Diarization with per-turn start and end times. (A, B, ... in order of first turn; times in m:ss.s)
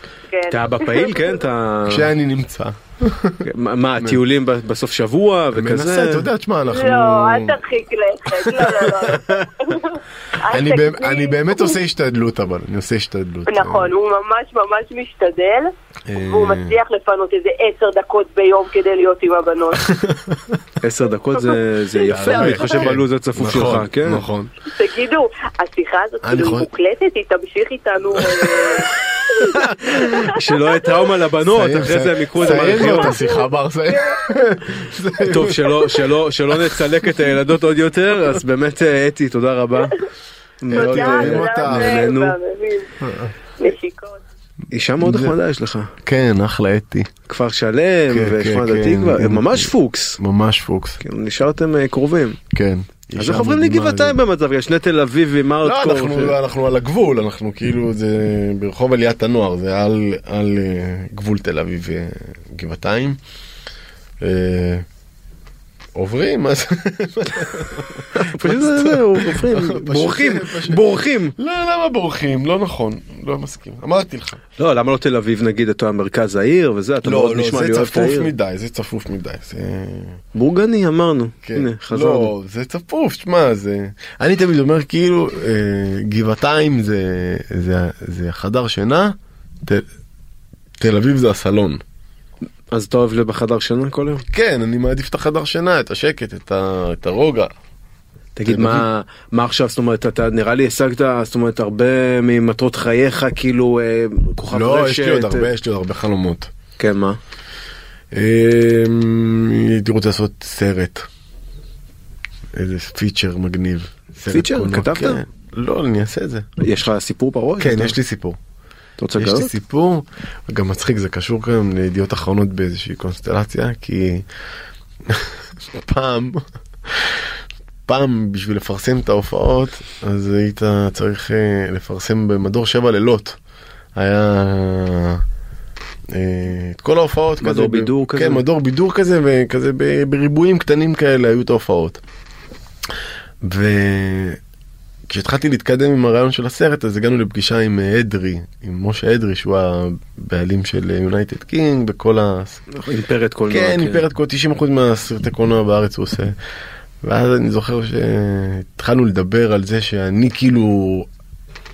0:00.3-0:01.4 A
0:00.5-0:02.1 B
0:01.9-0:03.4 C
0:03.4-0:06.3 B
0:05.5-0:07.6 C
0:06.7-0:11.8 A
0:08.4-0:09.2 C
0:10.5-0:13.9 C
0:13.5-0:19.9 A
0:16.1-0:16.8 C
0:19.8-0:20.6 C
0:20.8-0:24.2 B
0:21.4-0:22.9 A
0:22.1-0:24.5 C
0:24.7-0:30.4 A
0:26.2-0:26.7 C
0:28.2-0:28.8 C
0:29.7-0:33.2 B
0:31.5-0:35.9 C
0:32.5-0:34.2 A
0:35.2-0:39.9 B
0:36.5-0:36.8 C
0:40.6-0:42.4 B
0:40.7-0:42.1 C
0:40.7-0:42.9 A
0:43.0-0:43.3 C
0:43.6-0:44.2 A
0:44.7-0:45.9 B
0:45.0-0:45.3 C
0:46.0-0:47.1 C
0:47.2-0:50.2 B
0:48.1-0:51.0 C
0:51.0-0:52.4 B
0:52.5-0:54.2 C
0:53.2-0:56.4 B
0:55.6-1:03.2 C
1:04.2-1:04.8 C
1:05.9-1:14.4 C
1:08.2-1:11.3 B
1:14.6-1:18.3 B
1:17.0-1:20.2 C
1:20.3-1:22.3 B
1:21.4-1:29.8 C
1:30.8-1:31.8 C
1:32.7-1:34.2 B
1:34.3-1:37.5 C
1:38.4-1:45.5 B
1:38.4-1:38.8 C
1:44.5-1:46.5 C
1:46.8-1:47.2 B
1:48.1-1:51.1 C
1:52.5-1:56.6 C
1:54.3-1:55.2 B
1:56.6-1:58.0 B
1:57.6-1:58.4 C
1:59.0-1:59.5 B
1:59.2-2:04.3 C
2:05.0-2:07.3 C
2:07.8-2:13.4 C
2:13.9-2:15.2 C
2:16.1-2:22.0 C
2:17.4-2:18.4 B
2:23.4-2:24.4 C
2:25.1-2:32.6 C
2:32.7-2:34.0 B
2:33.5-2:36.3 C
2:37.0-2:41.1 C